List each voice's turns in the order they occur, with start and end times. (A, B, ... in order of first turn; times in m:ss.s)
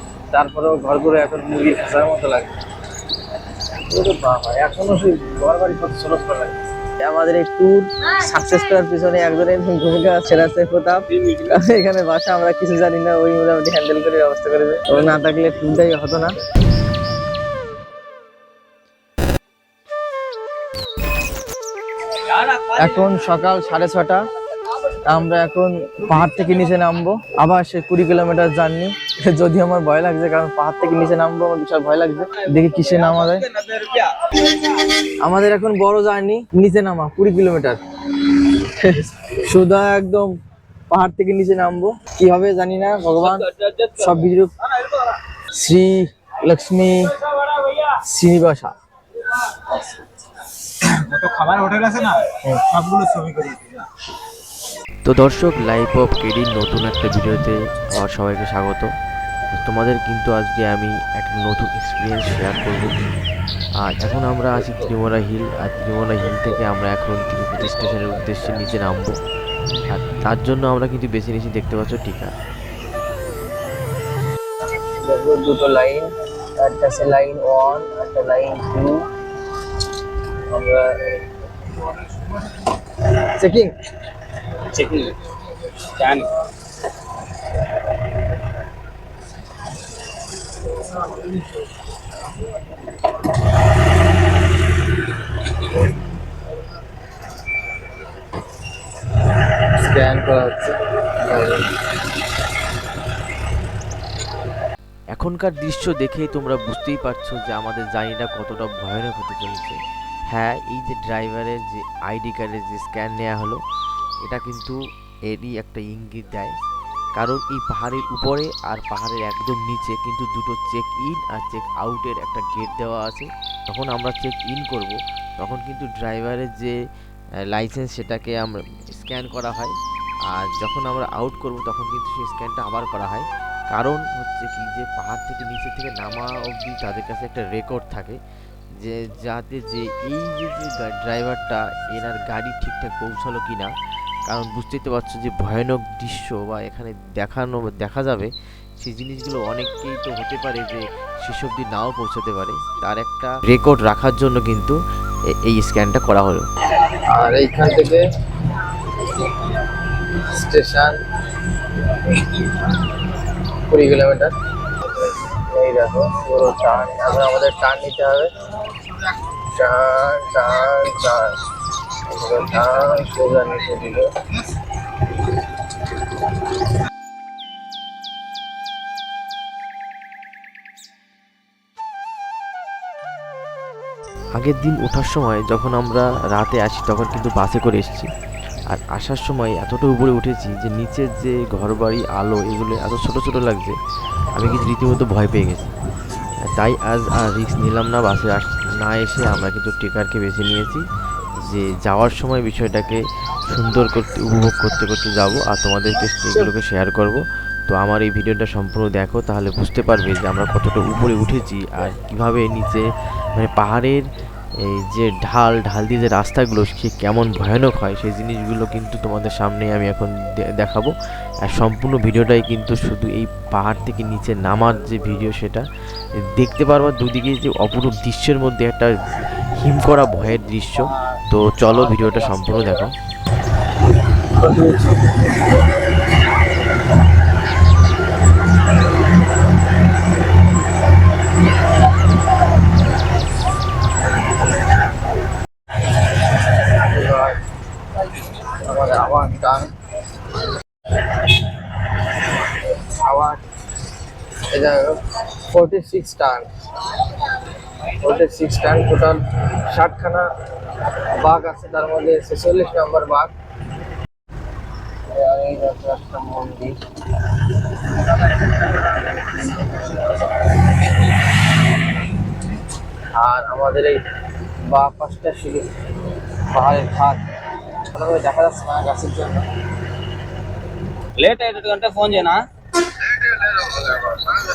0:00.3-0:02.5 A
0:03.8-0:16.4 A
0:22.3-0:24.2 A
0:25.0-0:33.8 A
0:35.2-0:40.3 A
0:40.9-0:44.5 A
0:43.6-0:43.9 B
0:45.5-0:48.8 A
0:51.4-0:51.8 B
0:52.3-0:53.0 A
0:53.3-0:53.7 B
0:55.0-0:58.9 C
0:59.5-1:02.9 C
1:03.8-1:09.2 C
1:09.9-1:12.3 C
1:15.0-1:19.0 A
1:20.5-1:21.2 A
1:23.2-1:23.7 A
1:24.7-1:25.2 B
1:25.8-1:26.3 B
1:39.8-1:41.7 A
1:45.1-1:49.8 C
1:50.3-1:53.6 C
1:54.2-1:56.6 C
1:57.2-2:06.8 C
2:07.5-2:09.8 C
2:10.3-2:18.2 C
2:18.8-2:23.7 C
2:24.3-2:34.8 C
2:35.4-2:36.5 C
2:37.1-2:38.0 A
2:40.2-2:41.0 A
2:43.7-2:48.3 A
2:49.4-2:51.4 A
2:52.0-2:54.1 A
3:04.3-3:08.1 C
3:08.7-3:13.8 C
3:14.3-3:15.7 C
3:16.4-3:20.8 C
3:21.4-3:34.0 C
3:34.6-3:40.9 C
3:41.4-3:45.6 C
3:46.2-3:49.0 C
3:49.6-3:53.0 C
3:54.4-3:55.1 A
4:06.7-4:07.4 A
4:08.5-4:09.7 A
4:12.8-4:13.4 A
4:14.5-4:16.5 A
4:17.9-4:20.3 A
4:21.1-4:23.3 A
4:25.1-4:26.8 A
4:33.2-4:34.0 A
4:34.7-4:35.7 A
4:36.5-4:37.2 A
4:37.8-4:39.5 A
4:41.2-4:42.5 B
4:43.7-4:44.1 B